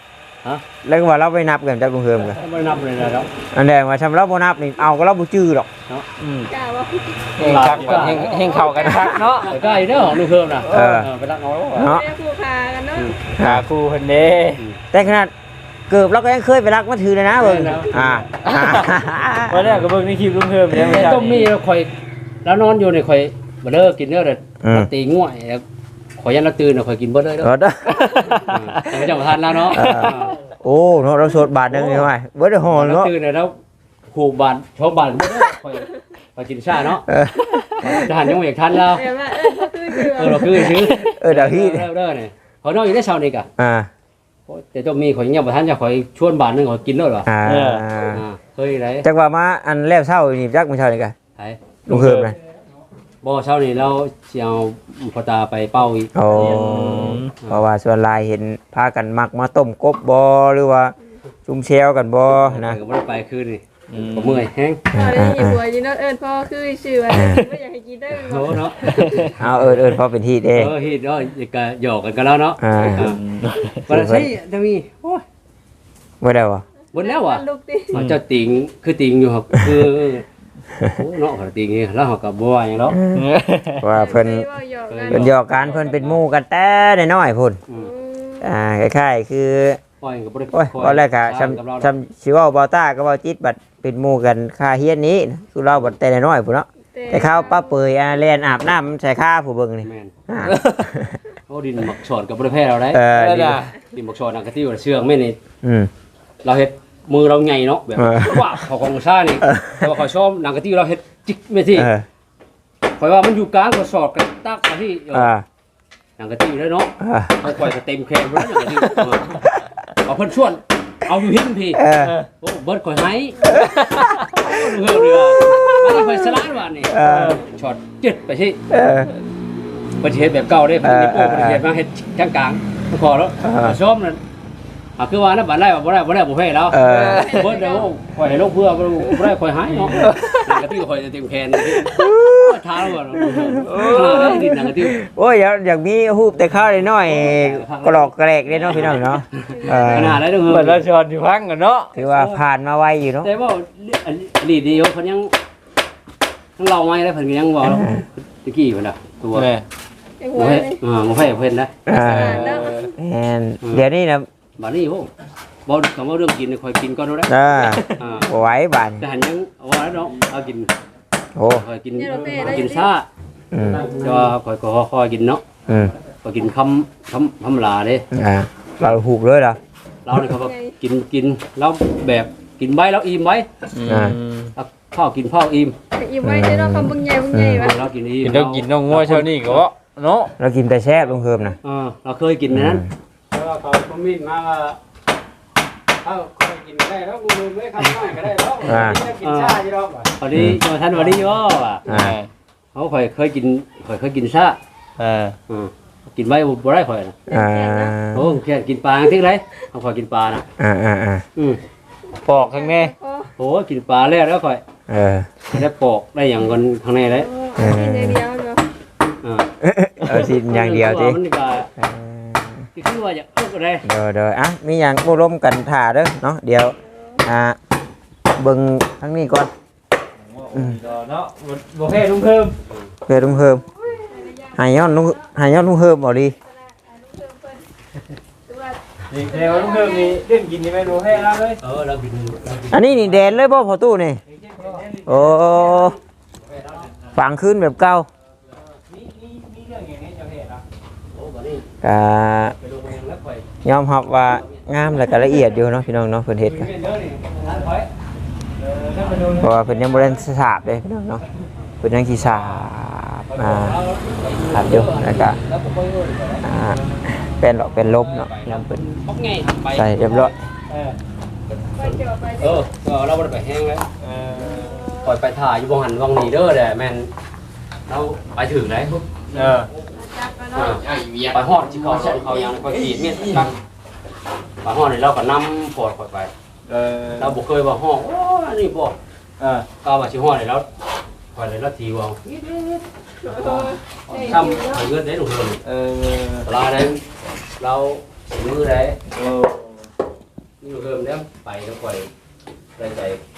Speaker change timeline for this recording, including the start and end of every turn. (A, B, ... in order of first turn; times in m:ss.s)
0:00.8-0:02.4 A
0:02.2-0:03.3 B
0:03.5-0:05.7 A
0:06.2-0:06.5 C
0:06.5-0:09.5 D
0:07.4-0:08.7 B
0:07.4-0:09.6 C
0:09.4-0:11.9 B
0:10.7-0:11.0 C
0:10.7-0:11.1 A
0:11.8-0:12.1 A
0:11.8-0:13.2 D
0:13.4-0:13.7 A
0:13.4-0:14.6 C
0:14.9-0:15.3 A
0:15.9-0:19.8 A
0:17.4-0:17.9 B
0:17.5-0:17.8 C
0:18.4-0:18.9 C
0:19.5-0:21.5 C
0:20.7-0:21.9 B
0:22.4-0:25.6 B
0:24.6-0:24.9 A
0:26.2-0:27.5 B
0:27.4-0:28.5 A
0:27.9-0:30.1 C
0:28.4-0:30.4 B
0:29.7-0:33.1 A
0:31.7-0:32.1 B
0:32.7-0:33.6 B
0:34.1-0:37.1 B
0:37.1-0:38.0 A
0:37.8-0:39.1 B
0:38.9-0:40.7 D
0:40.0-0:43.5 B
0:41.0-0:41.9 A
0:43.6-0:43.9 A
0:44.5-0:47.3 B
0:47.2-0:48.2 A
0:47.4-0:47.9 C
0:48.1-0:49.1 B
0:49.0-0:51.2 A
0:51.9-0:52.4 A
0:51.9-0:52.3 C
0:53.2-0:56.1 B
0:56.2-1:01.0 A
0:56.3-0:57.3 C
1:01.5-1:02.8 A
1:02.3-1:04.8 B
1:03.9-1:04.4 C
1:04.9-1:05.6 A
1:04.9-1:08.6 D
1:07.1-1:07.4 A
1:08.1-1:09.4 B
1:08.8-1:09.4 C
1:09.4-1:10.8 A
1:10.5-1:13.2 B
1:12.6-1:13.0 A
1:12.9-1:13.9 C
1:13.8-1:15.2 B
1:13.9-1:14.3 A
1:16.2-1:16.6 A
1:16.9-1:20.3 B
1:16.9-1:18.0 D
1:20.8-1:23.0 B
1:22.9-1:23.3 A
1:23.1-1:23.9 C
1:23.8-1:24.5 A
1:23.9-1:25.3 D
1:24.9-1:26.2 B
1:25.1-1:27.6 A
1:27.7-1:28.5 D
1:28.4-1:29.8 A
1:30.0-1:31.9 B
1:30.5-1:41.2 A
1:36.9-1:37.8 D
1:39.8-1:40.1 B
1:40.4-1:40.9 C
1:41.5-1:45.4 B
1:42.9-1:43.6 A
1:43.1-1:43.7 C
1:45.6-1:45.9 A
1:46.4-1:51.9 B
1:48.0-1:48.6 A
1:49.5-1:49.9 A
1:51.8-1:52.1 A
1:53.0-1:55.3 B
1:55.1-1:55.4 A
1:56.2-1:59.5 B
1:57.0-1:57.4 A
2:00.0-2:01.8 B
2:01.8-2:02.2 A
2:02.4-2:03.6 B
2:03.6-2:04.0 A
2:03.6-2:04.5 C
2:04.3-2:08.6 B
2:05.2-2:07.4 A
2:07.0-2:07.4 C
2:08.7-2:09.1 A
2:10.0-2:14.2 B
2:10.8-2:11.6 A
2:13.4-2:13.8 A
2:15.0-2:25.0 B
2:16.7-2:17.4 A
2:16.9-2:17.9 D
2:19.8-2:20.3 C
2:20.0-2:20.4 A
2:21.7-2:30.2 A
2:23.6-2:24.5 C
2:27.0-2:30.8 B
2:29.5-2:30.2 D
2:30.4-2:31.9 C
2:32.0-2:33.3 A
2:32.0-2:32.4 B
2:33.2-2:35.3 B
2:36.6-2:39.5 B
2:37.6-2:38.0 A
2:39.3-2:39.6 C
2:40.2-2:40.8 D
2:40.4-2:41.8 B
2:41.9-2:44.3 A
2:41.9-2:42.9 C
2:42.0-2:42.9 D
2:44.6-2:45.1 B
2:45.7-2:48.3 B
2:47.3-2:49.0 A
2:49.0-2:50.7 B
2:51.4-2:51.6 A
2:51.5-2:53.1 B
2:52.0-2:52.9 D
2:53.5-2:53.9 A
2:53.6-2:55.5 B
2:55.7-2:55.9 A
2:56.2-2:58.1 B
2:58.1-2:59.6 A
3:00.0-3:03.5 B
3:00.2-3:00.8 D
3:03.7-3:04.5 C
3:03.9-3:04.2 A
3:04.6-3:05.8 B
3:05.9-3:07.8 D
3:06.2-3:07.7 A
3:07.5-3:09.6 B
3:08.2-3:10.3 C
3:10.4-3:11.6 A
3:11.6-3:14.8 B
3:12.5-3:12.9 A
3:16.0-3:21.9 B
3:18.4-3:20.1 C
3:18.6-3:19.0 A
3:20.3-3:20.6 A
3:21.9-3:22.2 A
3:21.9-3:22.3 C
3:22.7-3:24.6 B
3:25.0-3:25.4 C
3:25.5-3:27.2 B
3:27.3-3:28.0 D
3:27.3-3:28.4 A
3:28.1-3:30.5 B
3:30.6-3:31.2 A
3:32.2-3:32.9 C
3:32.5-3:33.3 D
3:33.4-3:34.6 B
3:34.9-3:35.5 A
3:35.5-3:37.3 B
3:37.2-3:38.6 D
3:37.6-3:38.2 A
3:39.2-3:39.5 B
3:39.6-3:41.2 A
3:40.0-3:41.7 B
3:41.8-3:42.6 A
3:42.8-3:43.9 B
3:43.8-3:47.6 A
3:48.4-3:49.5 A
3:50.2-3:52.6 C
3:50.5-3:50.8 A
3:52.7-3:53.0 B
3:53.1-3:53.6 A
3:54.1-3:55.2 D
3:54.5-3:56.4 A
3:56.5-3:57.7 D
3:58.5-4:00.2 D
3:59.1-4:01.6 C
4:01.6-4:03.1 B
4:02.7-4:04.2 A
4:04.3-4:05.9 C
4:05.1-4:06.0 A
4:06.4-4:06.9 B
4:06.8-4:07.2 C
4:07.2-4:08.1 A
4:08.5-4:10.6 C
4:11.1-4:11.7 B
4:11.8-4:12.6 A
4:12.5-4:13.5 B
4:13.6-4:16.7 A
4:14.3-4:14.7 B
4:16.4-4:17.8 C
4:17.4-4:17.9 B
4:18.6-4:20.1 C
4:19.4-4:21.2 A
4:21.8-4:23.8 A
4:23.3-4:26.5 B
4:24.5-4:25.4 A
4:26.4-4:28.8 A
4:27.8-4:30.3 B
4:29.7-4:30.3 A
4:30.7-4:31.0 C
4:31.5-4:33.9 B
4:31.8-4:32.6 D
4:34.0-4:35.0 C
4:34.4-4:35.1 D
4:35.0-4:37.1 B
4:37.9-4:39.6 B
4:39.3-4:39.7 C
4:39.9-4:40.9 D
4:40.5-4:43.6 B
4:40.8-4:43.5 C
4:44.6-4:46.3 B
4:46.7-4:47.4 C
4:47.2-4:49.0 B
4:49.4-4:49.7 C
4:49.8-4:50.7 B
4:51.3-4:55.6 B
4:53.2-4:54.9 D
4:55.6-4:56.5 C
4:56.4-4:57.0 B
4:57.6-4:59.0 B
4:59.1-4:59.9 C
5:00.6-5:02.1 B
5:02.8-5:03.2 B